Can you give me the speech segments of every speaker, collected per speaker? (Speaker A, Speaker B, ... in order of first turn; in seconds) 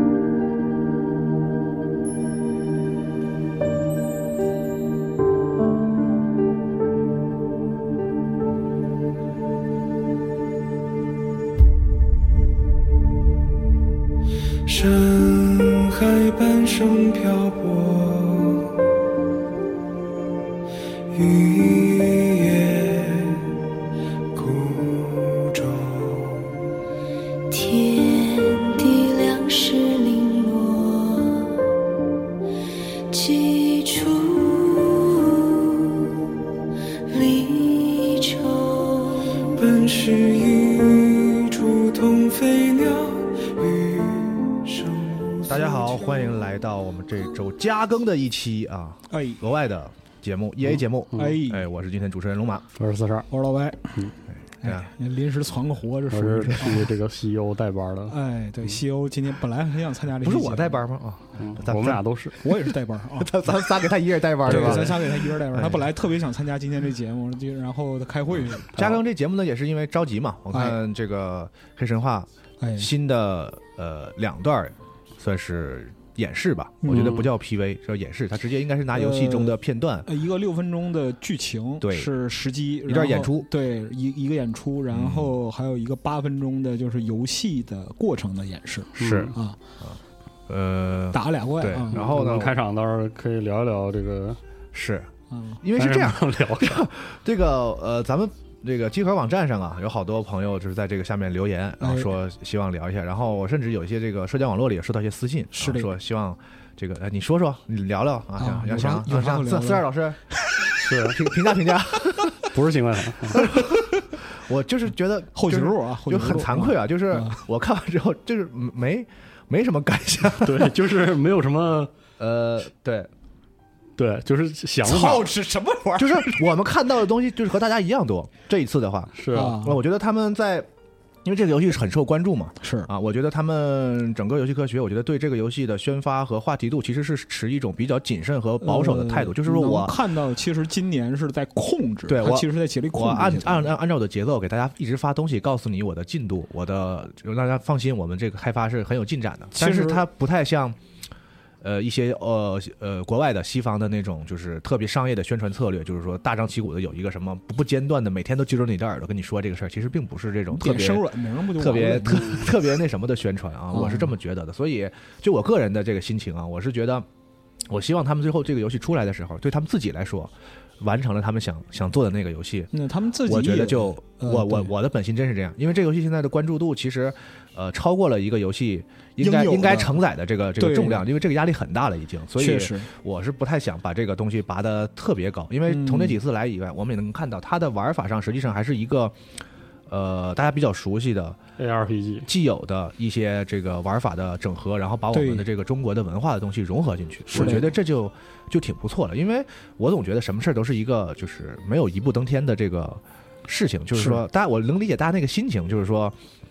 Speaker A: 14.7-18.7, 21.1-23.5, 24.3-26.5, 39.5-45.5
Speaker B: 31.2-31.5, 34.5-35.9, 37.7-37.9
Speaker C: 45.4-52.7, 54.6-54.9, 60.2-62.0, 63.2-65.9, 68.7-80.1, 81.8-82.1, 82.8-83.5, 84.9-85.4, 89.0-90.0, 90.5-92.6, 94.7-110.2, 111.0-112.5, 113.3-120.7, 122.2-123.1, 126.0-130.7, 131.2-140.0, 142.1-150.8, 151.6-161.0, 161.6-167.1, 167.7-172.7, 173.2-189.2, 189.9-191.4, 192.2-206.2
Speaker D: 49.1-49.4, 51.1-51.6, 53.3-54.0, 54.6-56.9, 58.1-60.8, 62.4-63.3, 64.4-68.8, 70.5-70.8, 72.6-72.9, 76.8-77.3, 78.9-89.6, 91.1-92.0, 95.3-95.6, 101.8-102.1, 105.5-105.9, 108.4-109.9, 115.3-117.4, 124.8-126.4, 129.3-129.8, 132.6-132.9, 138.6-143.7, 149.5-150.0, 160.5-162.5, 163.7-164.1, 172.7-174.7, 179.2-180.0, 180.6-181.0, 182.4-182.9, 185.7-186.2, 195.1-195.4, 197.3-197.7
Speaker E: 51.1-51.4, 52.8-53.2, 56.1-58.1, 61.4-62.4, 64.5-64.9, 89.0-89.3, 92.0-94.4, 95.8-96.8, 110.8-111.2, 112.4-113.5, 120.4-121.9, 124.0-125.3, 129.2-129.6, 191.6-192.3